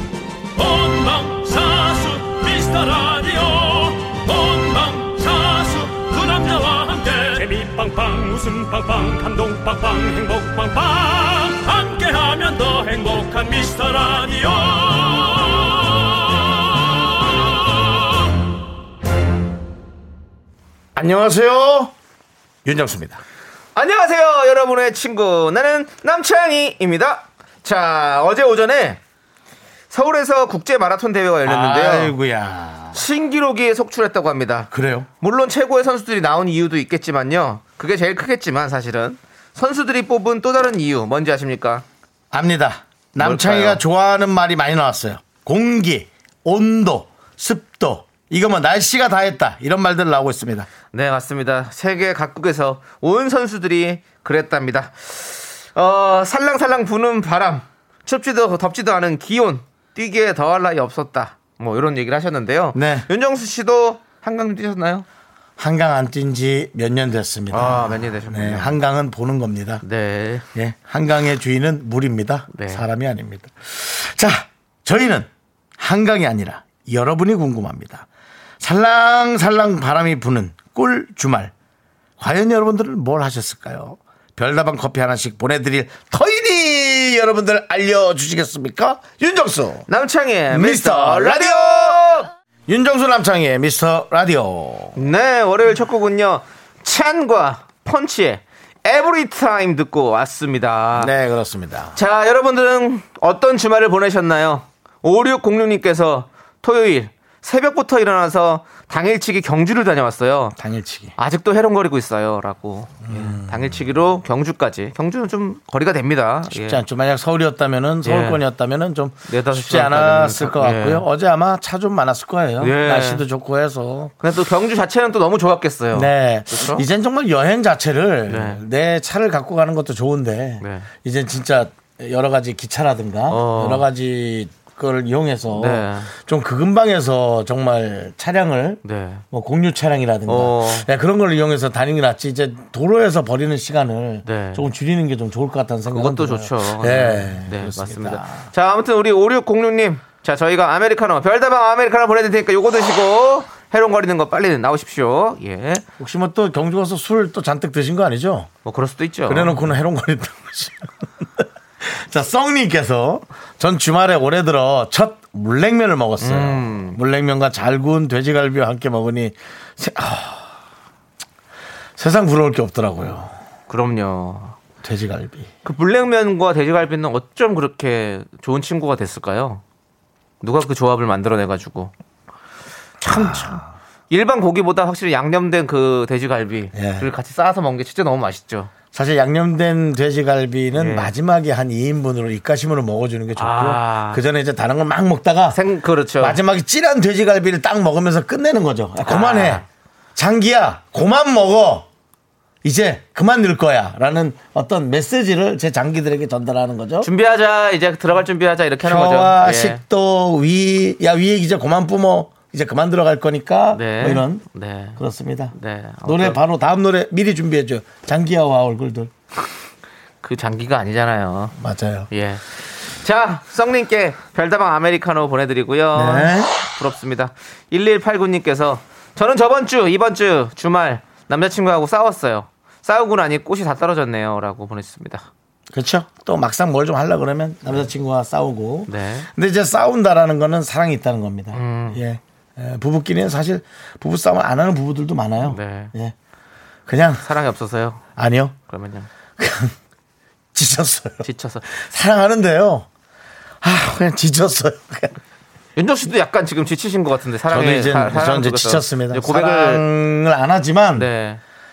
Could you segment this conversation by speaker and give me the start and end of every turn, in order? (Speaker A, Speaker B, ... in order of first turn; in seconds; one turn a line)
Speaker A: 0.6-18.1
Speaker B: 20.9-21.9
Speaker B: 22.6-23.2
Speaker C: 23.8-29.0
Speaker C: 29.9-32.1
Speaker B: 31.4-33.0
Speaker C: 32.9-34.7
Speaker B: 34.7-35.1
Speaker C: 35.2-41.8
Speaker B: 42.3-50.7
Speaker C: 43.2-43.8
Speaker C: 50.9-65.0
Speaker B: 62.7-63.1
Speaker B: 65.6-69.8
Speaker C: 67.5-68.8
Speaker C: 69.8-70.5
Speaker B: 70.5-78.1
Speaker C: 72.5-72.8
Speaker B: 78.6-81.5
Speaker B: 82.2-89.9
Speaker C: 89.9-92.3
Speaker B: 90.5-92.1
Speaker B: 92.7-95.0
Speaker C: 95.0-101.1
Speaker B: 101.0-102.0
Speaker C: 102.0-110.6
Speaker B: 110.6-111.1
Speaker C: 111.2-116.8
Speaker B: 113.1-113.8
Speaker B: 116.5-124.1
Speaker C: 118.0-118.4
Speaker C: 119.3-121.1
Speaker C: 122.6-123.2
Speaker C: 124.2-126.8
Speaker B: 125.9-148.5
Speaker C: 128.3-128.6
Speaker C: 130.6-130.9
Speaker C: 133.3-133.9
Speaker C: 135.5-136.1
Speaker C: 138.8-139.2
Speaker C: 140.3-140.9
Speaker C: 144.2-144.7
Speaker C: 145.9-155.8
Speaker B: 156.0-158.5
Speaker C: 158.7-159.7
Speaker B: 159.3-170.5
Speaker C: 166.2-167.0
Speaker B: 172.0-173.3
Speaker C: 173.7-174.6
Speaker B: 174.8-175.5
Speaker C: 175.7-179.6
Speaker C: 180.4-181.9
Speaker C: 183.0-188.7
Speaker B: 183.1-183.7
Speaker B: 186.7-187.1
Speaker B: 188.9-195.6
Speaker C: 190.8-191.1
Speaker C: 193.4-194.2
Speaker C: 195.5-196.4
Speaker B: 196.2-199.6
Speaker C: 199.0-199.7
Speaker B: 200.2-201.9
Speaker B: 202.6-207.1
Speaker C: 207.0-209.8
Speaker B: 208.8-214.5
Speaker C: 213.7-215.0
Speaker B: 215.0-219.1
Speaker C: 215.6-216.4
Speaker C: 220.2-221.6
Speaker B: 221.6-222.1
Speaker C: 222.1-235.3
Speaker B: 225.9-226.7
Speaker B: 235.7-246.2
Speaker C: 238.9-239.3
Speaker C: 241.5-242.0
Speaker C: 245.4-245.9
Speaker B: 246.9-247.3
Speaker C: 247.2-248.0
Speaker B: 248.2-248.6
Speaker C: 248.7-249.1
Speaker B: 249.4-249.8
Speaker B: 250.5-252.9
Speaker C: 251.2-251.7
Speaker B: 253.6-255.2
Speaker C: 255.8-259.8
Speaker B: 257.5-261.1
Speaker C: 261.0-261.4